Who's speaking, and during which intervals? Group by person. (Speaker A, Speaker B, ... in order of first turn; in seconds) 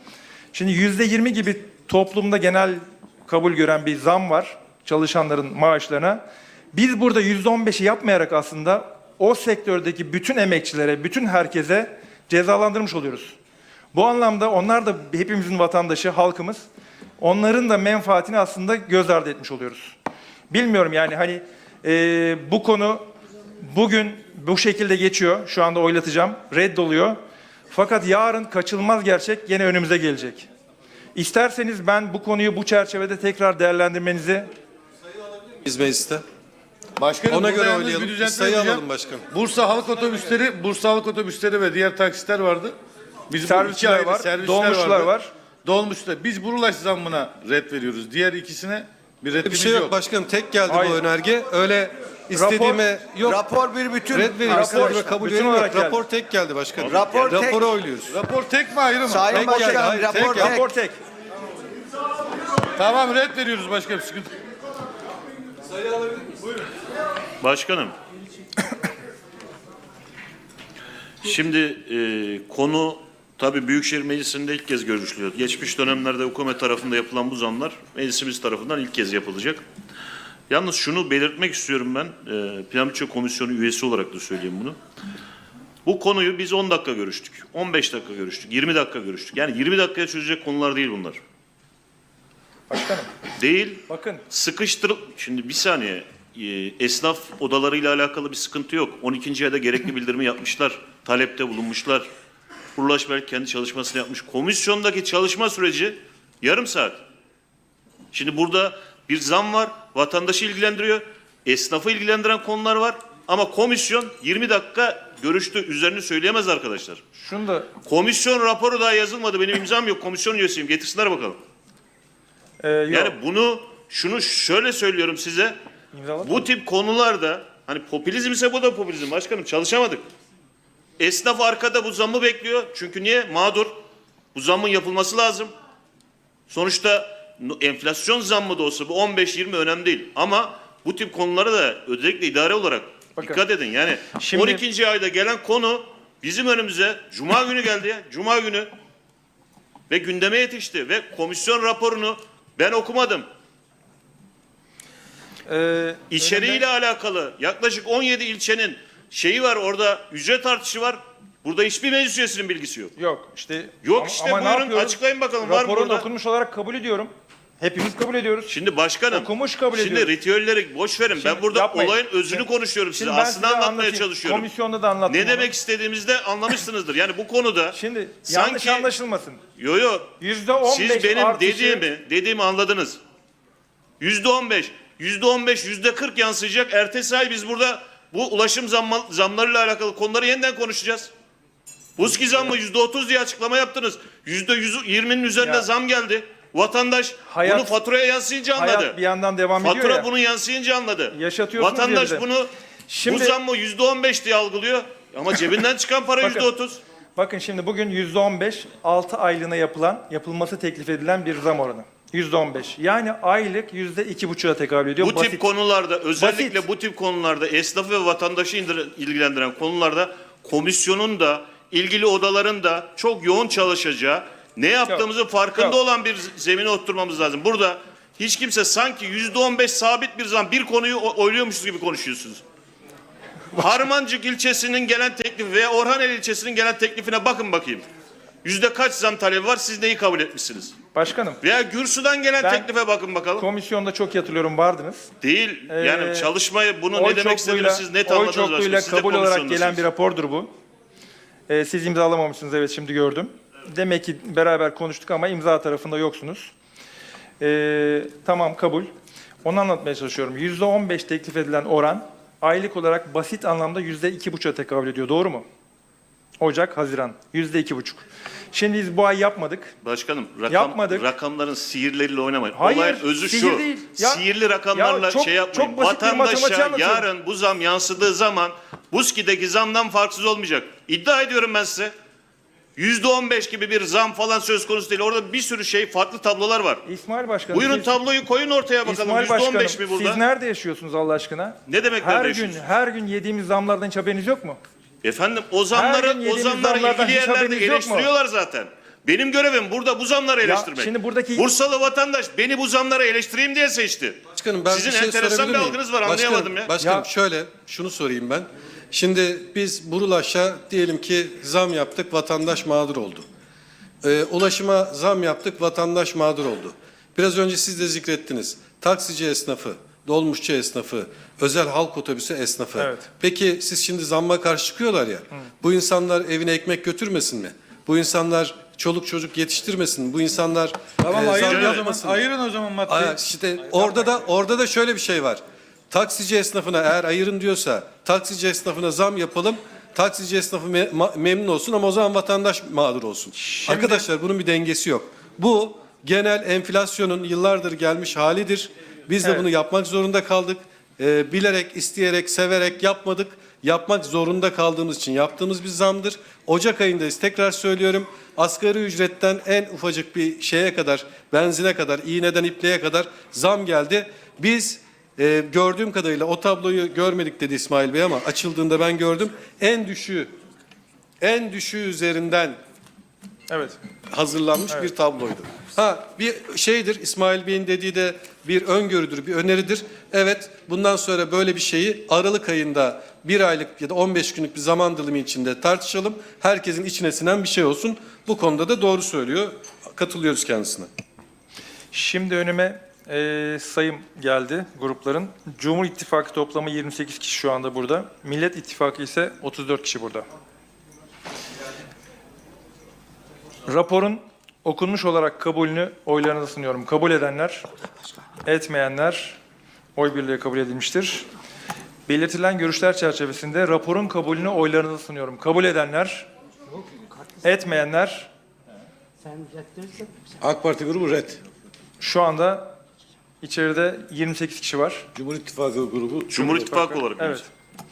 Speaker A: 0.5-6.2, 6.7-13.4, 13.9-16.7, 17.2-19.9, 20.5-23.0, 23.6-27.2, 27.7-30.5, 31.1-34.5, 43.4-45.3, 50.7-51.0, 52.3-52.9, 54.5-56.0, 60.1-61.0, 92.7-93.1, 93.9-94.2, 117.2-117.7, 122.6-123.2, 125.9-126.5, 144.1-144.6, 155.5-156.7, 163.0-168.5, 169.1-170.1, 171.2-175.5, 177.7-179.4, 180.2-181.8, 195.4-195.7, 197.3-197.7, 198.5-200.1, 201.1-202.3, 202.9-203.4, 206.2-206.5, 207.2-215.5, 216.2-216.6, 240.9-241.4, 242.4-242.7, 243.4-245.1, 245.7-246.3, 246.9-250.5, 251.5-256.5, 257.4-258.9, 259.4-265.4, 266.4-269.7, 270.5-271.1, 272.6-277.1, 286.9-287.9, 288.8-294.6, 295.7-298.1, 300.4-301.5, 306.8-307.1, 322.8-323.1, 343.4-344.1, 373.5-373.8, 391.9-400.3, 403.7-407.7, 408.4-409.4, 410.0-411.3, 412.1-416.3, 417.4-418.3, 422.0-422.8, 423.4-425.1, 426.8-427.5
Speaker B: 35.4-36.2, 37.3-39.2, 49.4-53.5, 54.1-58.2, 59.3-60.6, 304.3-313.3, 314.0-332.3, 332.9-370.3, 371.2-372.6, 374.1-390.9
Speaker C: 37.0-42.8, 43.3-45.1, 45.6-50.0, 58.1-59.4, 62.8-64.3, 331.0-333.2, 420.4-421.4, 425.1-426.8
Speaker D: 53.3-55.1, 56.9-57.7, 59.1-60.7
Speaker E: 56.8-57.4, 67.4-67.9, 71.2-79.7, 80.5-84.8, 85.8-91.2, 93.4-102.1, 102.8-107.0, 108.1-117.0, 117.8-121.4, 122.9-125.5, 126.2-130.0, 131.0-133.8, 134.3-135.5, 136.5-148.7, 149.9-153.3, 156.1-162.9, 163.8-166.1, 168.5-174.5, 175.1-178.9, 179.6-180.1, 180.7-183.0, 184.0-191.1, 192.0-199.0, 199.6-202.5, 203.1-206.8, 215.0-232.4, 233.6-237.9, 238.4-240.8, 241.4-243.4, 245.2-249.8, 269.8-281.9, 282.8-286.8, 287.5-290.2, 291.7-292.6, 295.0-306.7, 331.4-331.8, 426.3-427.4